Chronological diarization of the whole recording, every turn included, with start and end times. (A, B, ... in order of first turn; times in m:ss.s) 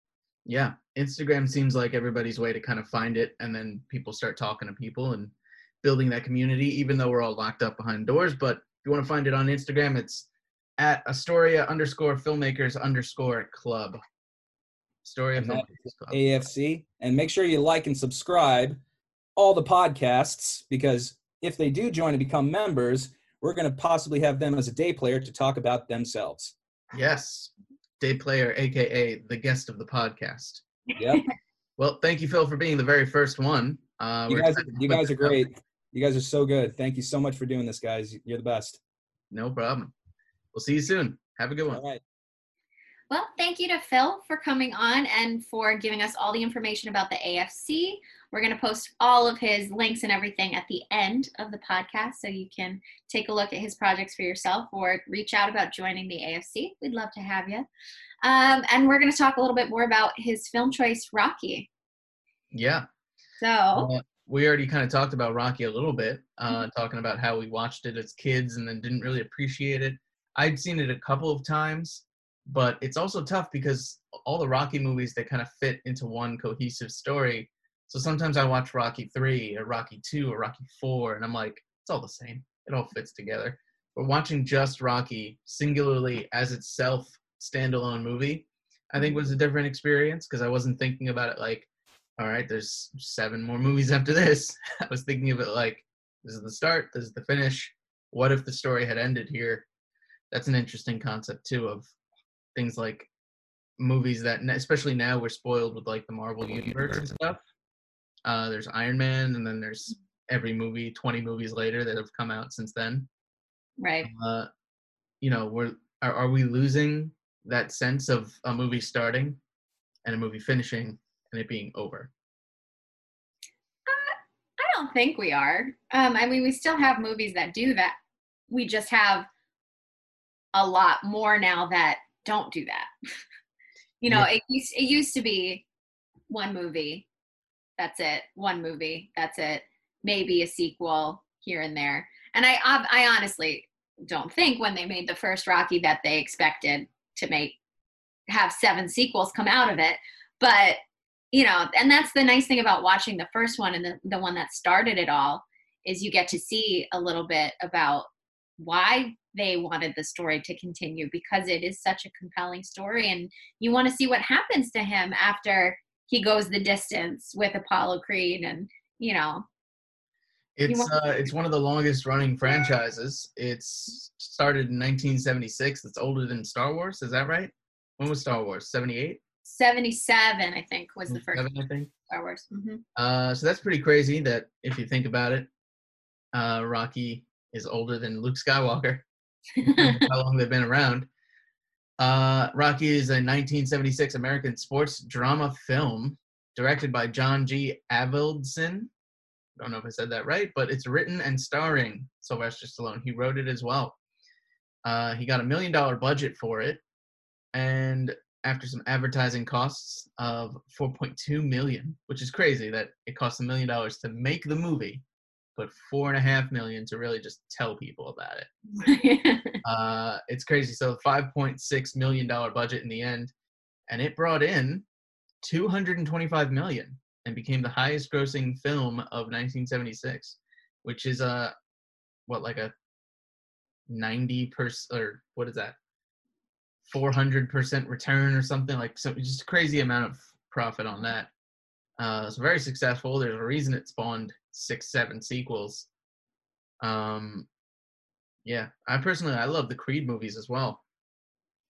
0:00.4-0:14.0 A
0:15.0-0:16.3 A
0:15.4-0:18.8 B
0:19.4-0:26.5 B
0:26.9-0:30.6 A
0:31.0-0:31.2 B
0:31.8-0:35.4 A
0:34.3-0:38.8 B
0:39.3-0:39.9 A
0:40.5-0:41.8 A
0:41.7-0:42.0 B
0:43.1-0:57.6 C
0:58.2-1:01.7 C
1:02.5-1:02.9 A
1:03.4-1:03.9 C
1:03.7-1:31.7 A
1:32.2-1:39.6 A
1:40.3-1:41.9 A
1:42.6-1:43.1 A
1:43.8-1:47.4 A
1:48.2-1:53.1 A
1:53.8-1:54.1 C
1:54.0-1:54.5 A
1:55.2-1:59.4 A
2:00.0-2:02.1 A
2:03.9-2:08.0 C
2:08.5-2:09.3 C
2:10.5-2:12.9 C
2:14.0-2:15.6 C
2:16.3-2:17.1 C
2:17.8-2:27.6 C
2:28.3-2:30.8 C
2:31.3-2:38.1 C
2:38.6-2:49.4 C
2:50.6-2:59.2 A
2:50.7-2:50.9 C
2:59.4-3:01.5 C
3:01.1-3:01.9 A
3:02.1-3:02.8 C
3:03.0-3:05.5 A
3:06.3-3:09.0 A
3:09.6-3:10.0 C
3:09.6-3:11.1 A
3:12.0-3:18.9 A
3:19.6-3:24.0 A
3:24.8-3:26.8 A
3:27.5-3:35.0 A
3:35.6-3:38.5 A
3:38.8-3:39.6 C
3:39.6-3:43.3 A
3:43.9-3:44.8 A
3:45.4-3:51.5 A
3:52.3-3:52.7 A
3:53.9-3:55.8 A
3:56.9-4:01.3 A
4:02.0-4:05.9 A
4:06.8-4:07.5 A
4:08.4-4:10.8 A